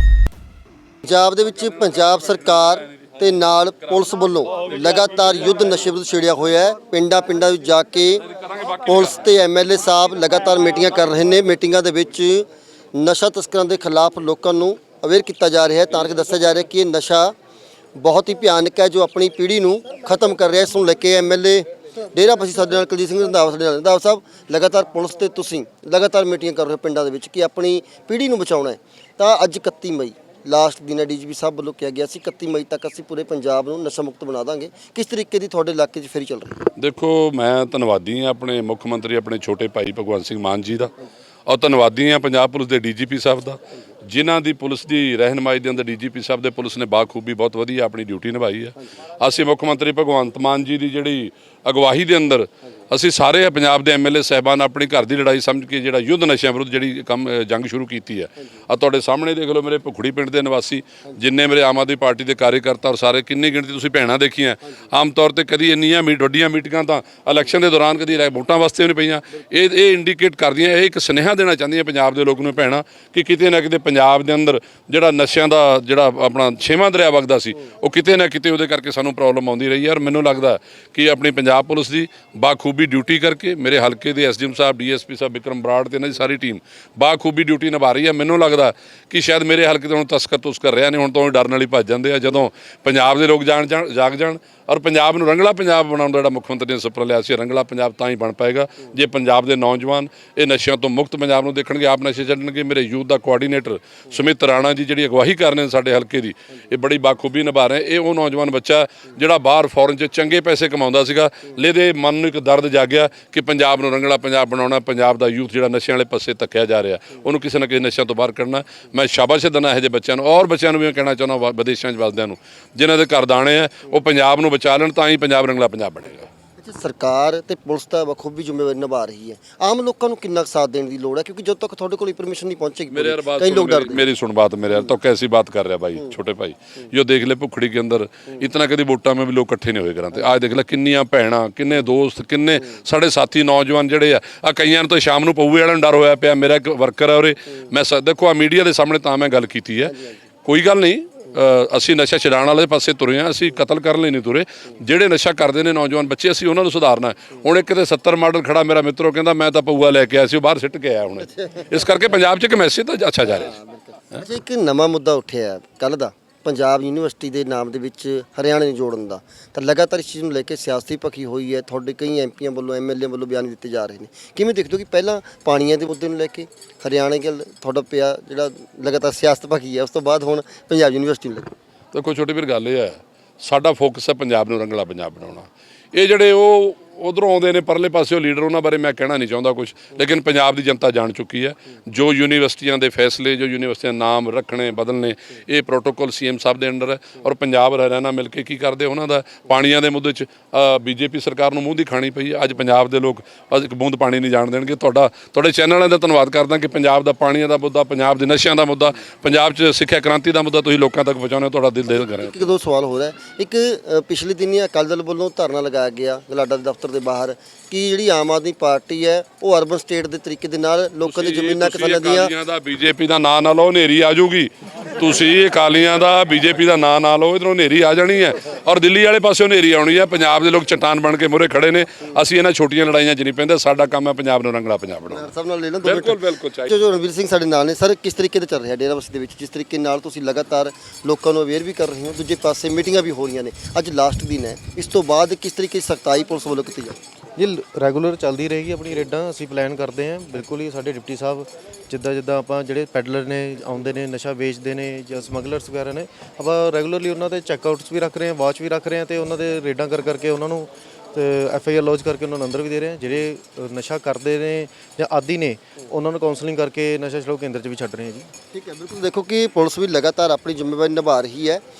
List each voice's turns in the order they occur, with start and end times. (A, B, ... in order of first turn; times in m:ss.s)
0:01.0-0:08.2 A
0:08.8-0:17.3 A
0:18.0-0:36.7 A
0:36.8-0:40.9 B
0:41.5-2:06.3 B
2:06.6-2:14.0 A
2:12.9-2:43.6 B
2:43.3-3:01.5 A
3:01.9-3:32.5 B
3:31.9-3:42.3 A
3:41.0-3:56.8 B
3:55.1-4:07.0 A
4:07.4-4:28.3 C
4:28.5-4:31.6 A